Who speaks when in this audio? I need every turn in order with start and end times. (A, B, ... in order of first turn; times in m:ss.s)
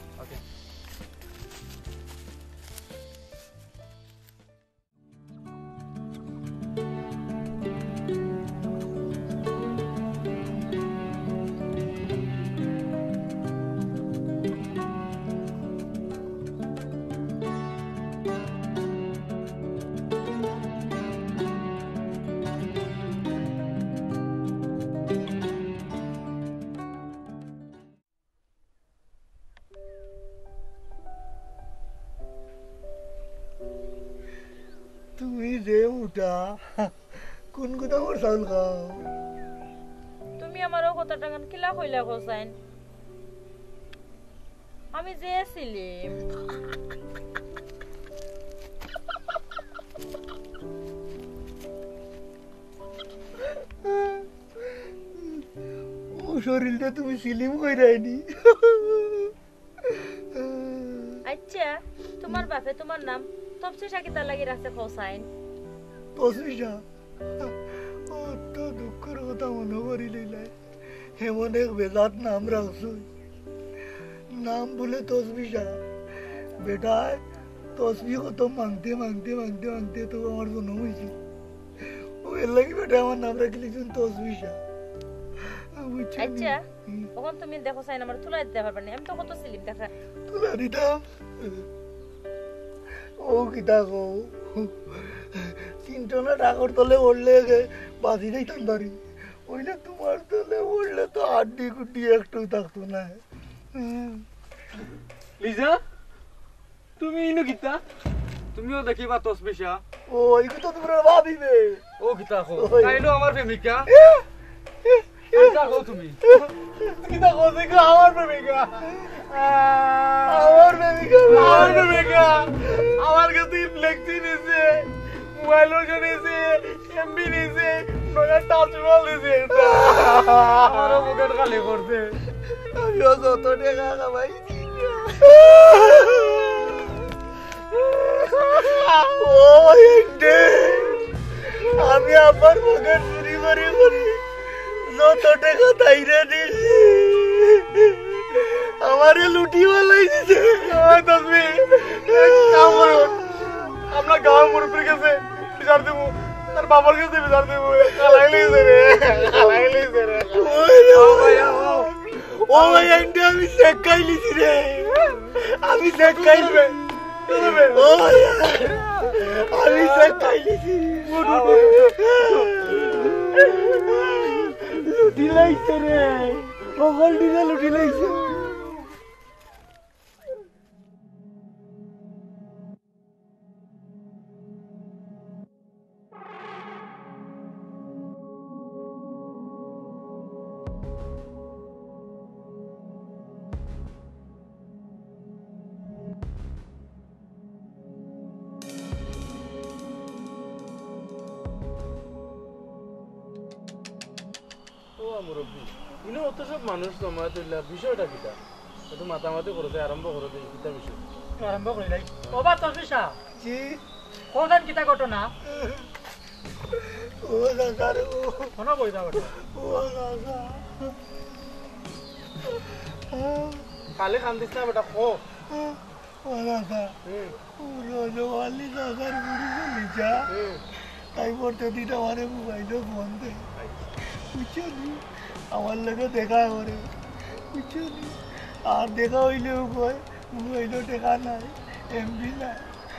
0:35.2-0:36.9 A
0:37.5-0:39.1 A
0:40.4-0:42.5 B
0:44.9-0:46.2 B
0:53.8-0:54.3 A
0:55.1-0:55.4 A
0:56.1-0:59.3 A
0:59.8-1:01.2 A
1:01.3-1:05.3 B
1:06.2-1:06.8 A
1:08.1-1:10.5 A
1:11.2-1:13.1 A
1:14.3-1:15.8 A
1:16.6-1:17.2 A
1:17.8-1:21.2 A
1:22.2-1:24.6 A
1:25.5-1:27.1 A
1:26.2-1:26.6 B
1:27.1-1:29.9 B
1:30.3-1:31.6 A
1:33.2-1:43.2 A
1:43.7-1:44.2 A
1:45.4-1:45.8 C
1:47.0-1:47.8 C
1:48.5-1:49.8 C
1:50.1-1:51.8 A
1:52.0-1:53.9 C
1:52.5-1:53.0 A
1:53.9-1:54.2 A
1:55.3-1:56.2 C
1:55.3-1:55.6 A
1:56.9-2:00.4 D
2:00.3-2:02.1 A
2:01.3-2:12.1 D
2:09.5-2:10.5 A
2:12.5-2:17.0 A
2:19.2-2:30.9 A
2:30.7-2:33.2 D
2:31.8-2:33.7 A
2:33.9-2:40.5 D
2:40.3-2:46.8 A
2:45.9-2:46.7 D
2:47.3-2:47.9 D
2:47.5-2:58.8 A
3:25.0-3:28.4 D
3:28.9-3:31.0 D
3:31.4-3:33.2 E
3:33.3-3:33.8 A
3:34.3-3:35.3 E
3:35.5-3:35.8 A
3:37.0-3:38.5 A
3:38.6-3:39.3 E
3:39.4-3:40.9 A
3:42.6-3:43.7 A
3:43.9-3:45.2 D
3:45.5-3:46.9 A
3:47.4-3:50.3 A
3:51.1-3:53.4 A
3:54.3-3:56.9 A
3:57.5-4:02.7 A